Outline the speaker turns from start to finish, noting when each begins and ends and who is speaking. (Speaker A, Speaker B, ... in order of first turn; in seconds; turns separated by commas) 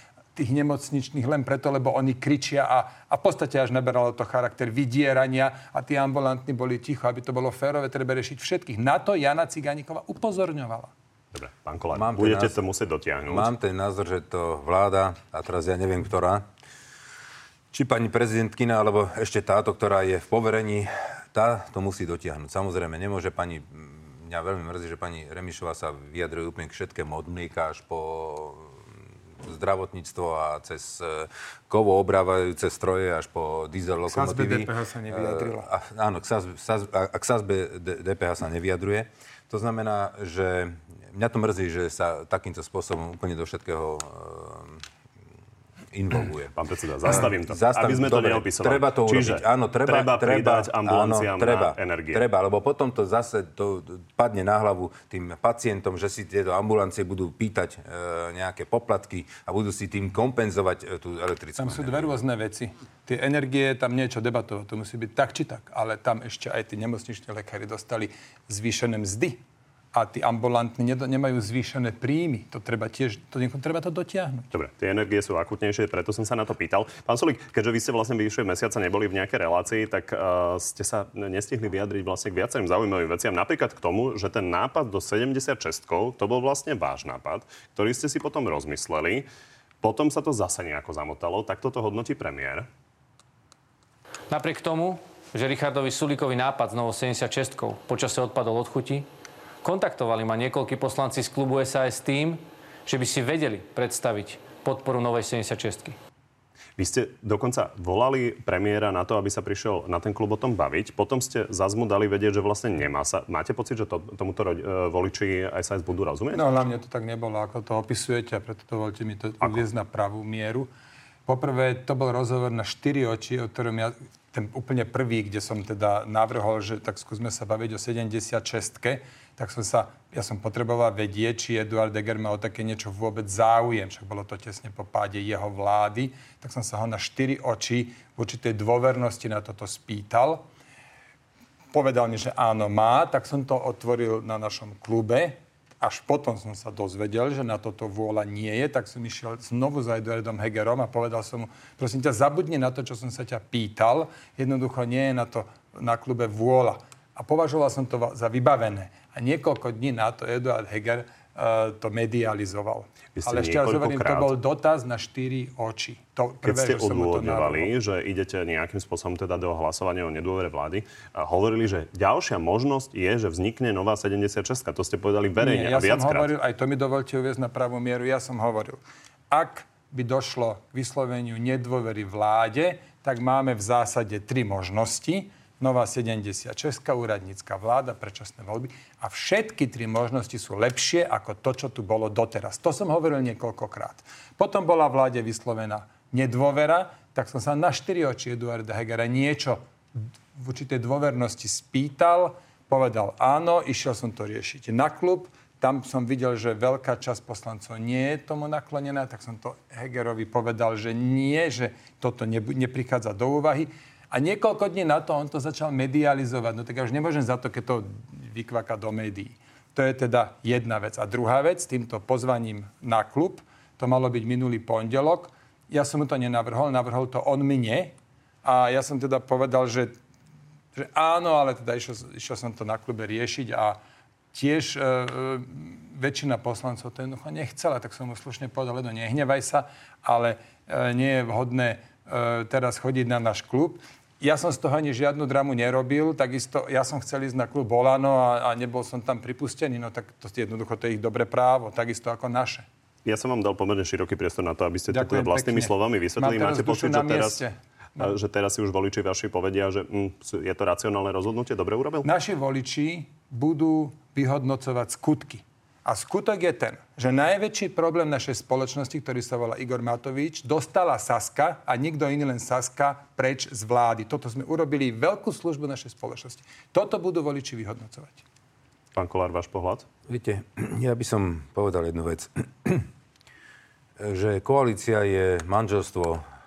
Speaker A: 0.3-10.9, Speaker B: 11.3-13.5, Speaker C: 11.9-12.6, Speaker C: 13.3-16.4, Speaker C: 17.7-28.9, Speaker C: 29.4-44.8, Speaker A: 34.1-35.7, Speaker C: 45.9-46.5, Speaker B: 46.5-52.2, Speaker C: 47.0-62.2, Speaker A: 61.6-69.4, Speaker A: 69.9-74.5, Speaker B: 74.5-89.2, Speaker B: 89.8-92.7, Speaker D: 94.3-99.1, Speaker D: 99.6-106.0, Speaker B: 106.8-116.4, Speaker A: 116.3-120.7, Speaker A: 121.3-140.4, Speaker A: 141.7-167.7, Speaker B: 163.2-164.3, Speaker B: 166.4-176.3, Speaker A: 175.4-199.6, Speaker A: 200.3-229.9, Speaker A: 230.8-233.8, Speaker A: 234.3-252.7, Speaker B: 253.1-257.4, Speaker A: 254.9-258.1, Speaker B: 258.0-262.1, Speaker A: 262.0-278.2, Speaker B: 278.9-279.9, Speaker C: 280.1-282.9, Speaker C: 284.0-286.2